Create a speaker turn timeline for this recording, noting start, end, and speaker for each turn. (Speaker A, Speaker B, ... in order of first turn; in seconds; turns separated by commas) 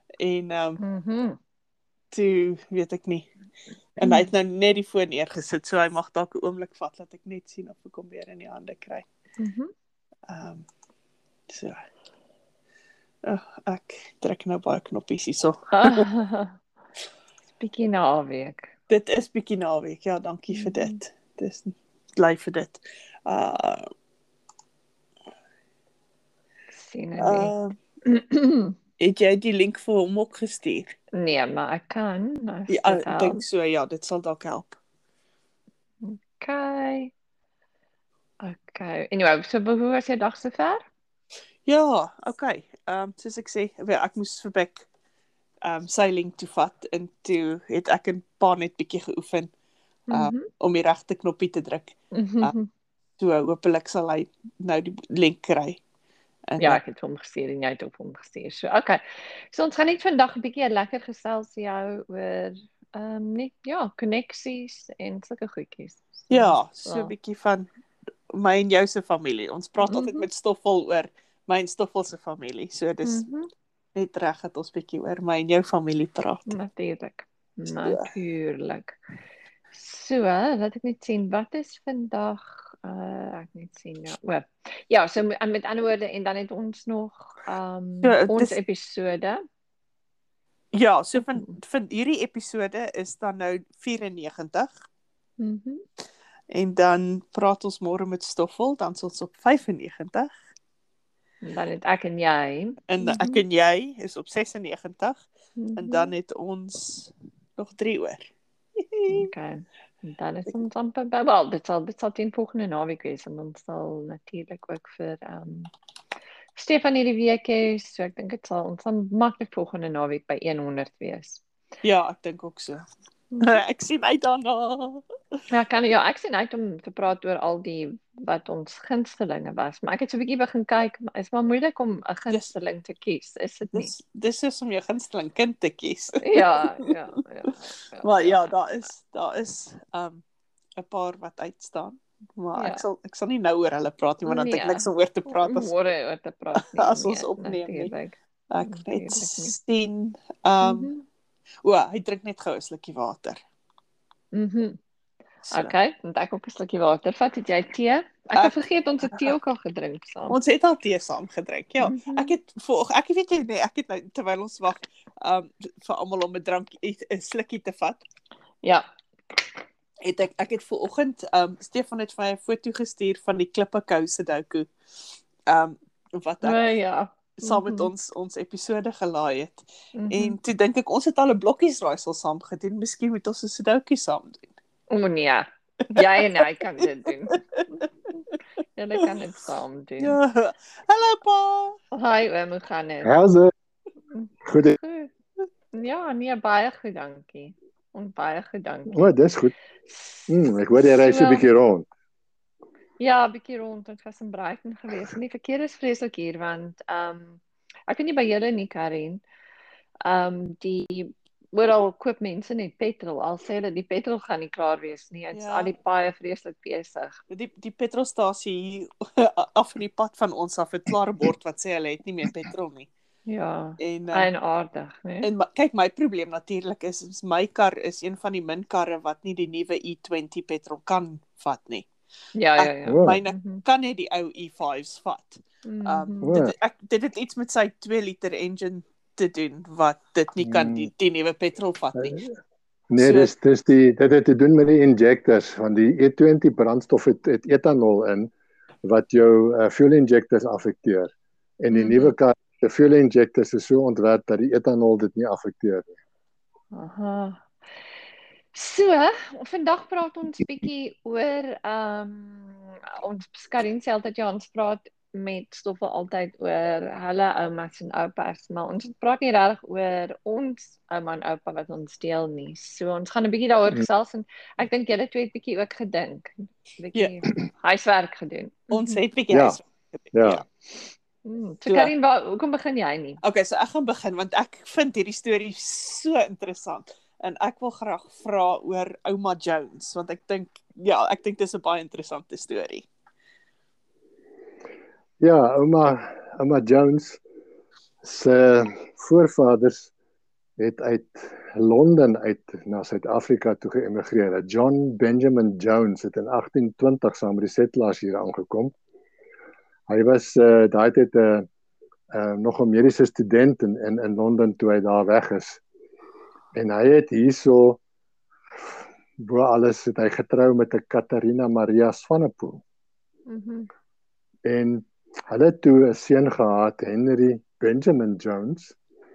Speaker A: 0.2-0.8, Speaker B: 0.8-1.4, Speaker A: 2.1-3.3, Speaker A: 4.0-9.1, Speaker B: 4.0-4.3, Speaker B: 9.4-9.7, Speaker A: 10.3-10.7, Speaker A: 11.5-11.8, Speaker A: 13.2-16.1, Speaker B: 15.8-16.5, Speaker B: 17.6-18.7, Speaker A: 18.9-23.9, Speaker B: 20.5-21.0, Speaker B: 26.7-27.5, Speaker A: 27.2-27.8, Speaker B: 28.0-28.7, Speaker A: 29.0-30.9, Speaker B: 31.1-33.4, Speaker A: 32.7-34.8, Speaker B: 36.0-37.1, Speaker B: 38.4-40.8, Speaker A: 41.6-44.9, Speaker A: 45.6-49.5, Speaker B: 50.1-50.5, Speaker A: 50.1-52.5, Speaker B: 52.1-52.7, Speaker A: 53.2-55.8, Speaker A: 56.5-56.8, Speaker B: 56.6-67.1, Speaker A: 66.3-67.7, Speaker A: 68.3-73.2, Speaker B: 69.8-70.2, Speaker B: 73.0-73.5, Speaker A: 73.9-76.5, Speaker B: 76.5-78.9, Speaker A: 77.8-78.1, Speaker B: 79.7-89.4, Speaker A: 88.0-88.5, Speaker A: 90.7-94.7, Speaker B: 95.4-95.8, Speaker A: 96.5-100.3, Speaker B: 101.4-103.4, Speaker A: 102.9-105.2, Speaker B: 105.6-106.1, Speaker A: 105.8-109.3, Speaker B: 109.1-115.7, Speaker B: 116.5-121.4, Speaker A: 121.8-122.8, Speaker B: 123.3-123.6, Speaker A: 123.4-125.0, Speaker B: 125.5-133.9, Speaker A: 133.7-136.7, Speaker B: 136.2-138.4, Speaker A: 138.0-140.2, Speaker A: 140.8-145.7, Speaker B: 142.5-142.8, Speaker B: 144.3-149.5, Speaker A: 146.5-147.9, Speaker A: 148.5-150.9, Speaker B: 150.6-151.0, Speaker A: 151.6-153.4, Speaker B: 154.3-154.8, Speaker A: 155.4-155.7, Speaker B: 155.5-160.3, Speaker A: 160.3-168.0, Speaker B: 161.8-162.3, Speaker A: 170.0-174.7, Speaker A: 175.5-176.7, Speaker B: 176.4-177.9, Speaker A: 177.4-184.5, Speaker B: 179.9-180.4, Speaker B: 184.9-187.8, Speaker A: 187.3-187.6, Speaker B: 188.8-190.2, Speaker A: 190.0-191.8, Speaker B: 191.9-193.1, Speaker C: 193.0-193.5, Speaker B: 194.1-195.1, Speaker C: 194.4-194.8, Speaker B: 195.7-199.1, Speaker C: 198.9-199.5, Speaker B: 199.9-200.3, Speaker C: 200.3-201.9, Speaker B: 201.0-201.4, Speaker B: 203.0-209.2, Speaker B: 210.0-217.2, Speaker A: 215.3-215.7, Speaker A: 217.3-222.9, Speaker B: 223.3-225.3, Speaker A: 223.8-224.3, Speaker A: 225.2-231.9, Speaker B: 232.3-233.6, Speaker A: 232.6-242.2, Speaker C: 232.8-233.2, Speaker B: 235.6-236.3, Speaker C: 236.2-236.5, Speaker C: 240.4-240.9, Speaker C: 242.9-248.3, Speaker A: 243.0-243.3, Speaker C: 248.8-255.9, Speaker B: 251.7-252.1, Speaker B: 256.7-257.4, Speaker B: 258.5-279.0, Speaker A: 278.7-280.4, Speaker C: 279.3-279.6, Speaker C: 280.1-280.4, Speaker B: 281.2-283.2, Speaker A: 281.7-281.9, Speaker A: 283.2-292.9, Speaker C: 295.2-297.2, Speaker C: 298.0-299.9, Speaker C: 300.6-308.7, Speaker C: 309.9-311.5, Speaker C: 312.1-315.6, Speaker C: 316.5-317.8, Speaker C: 318.6-322.6, Speaker B: 323.3-323.7, Speaker C: 324.4-328.7